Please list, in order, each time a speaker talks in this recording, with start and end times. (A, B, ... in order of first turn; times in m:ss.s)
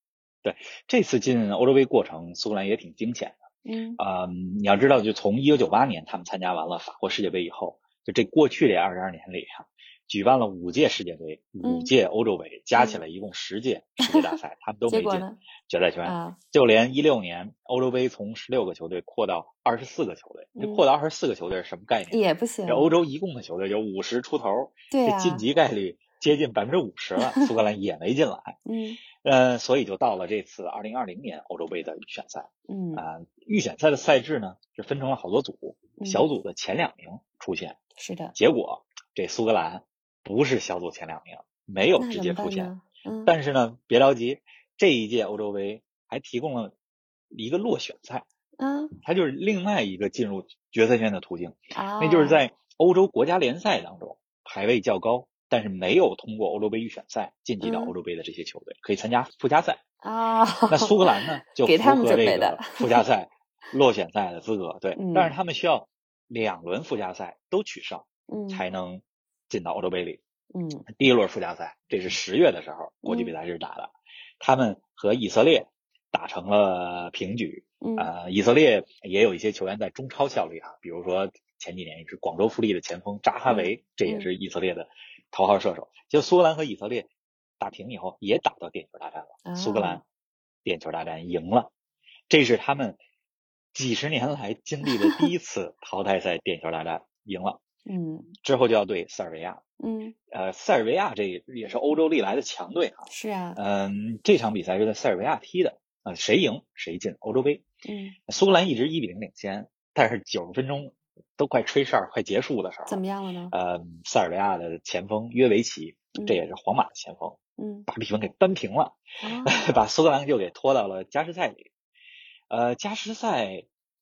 0:00.4-0:03.4 A
0:03.6-0:04.0 B
0:04.0-0:28.6 A
0:11.6-0:11.9 B
0:12.8-0:13.0 B
0:14.0-0:15.4 B
0:16.0-0:16.4 B
0:20.6-0:20.8 B
0:22.1-0:22.9 B
0:24.9-0:25.4 B
0:27.2-0:27.5 B
0:28.7-0:29.0 B
0:29.2-0:37.8 A
0:32.7-0:33.0 B
0:36.0-0:36.3 B
0:38.0-0:38.4 B
0:38.4-0:42.7 A
0:42.0-0:43.3 B
0:43.3-0:46.7 A
0:47.3-0:48.3 A
0:48.6-0:49.0 B
0:49.0-0:59.8 A
0:51.8-0:52.4 B
0:57.6-0:57.9 B
1:00.0-1:03.0 B
1:00.7-1:10.2 A
1:05.0-1:05.4 B
1:08.3-1:08.6 B
1:10.5-1:10.9 B
1:10.9-1:30.0 A
1:13.0-1:13.4 B
1:17.8-1:18.1 B
1:23.5-1:24.3 B
1:29.4-1:30.0 B
1:30.6-1:31.7 A
1:32.3-1:33.0 A
1:33.7-1:37.6 A
1:34.9-1:35.3 B
1:37.9-1:38.3 B
1:38.4-1:39.6 A
1:39.8-1:40.2 B
1:40.3-1:47.6 A
1:43.1-1:43.6 B
1:47.8-1:48.2 B
1:48.3-2:01.7 A
1:52.9-1:53.5 B
1:56.2-1:56.4 B
1:57.6-1:57.9 B
1:59.2-1:59.6 B
2:02.5-2:03.7 A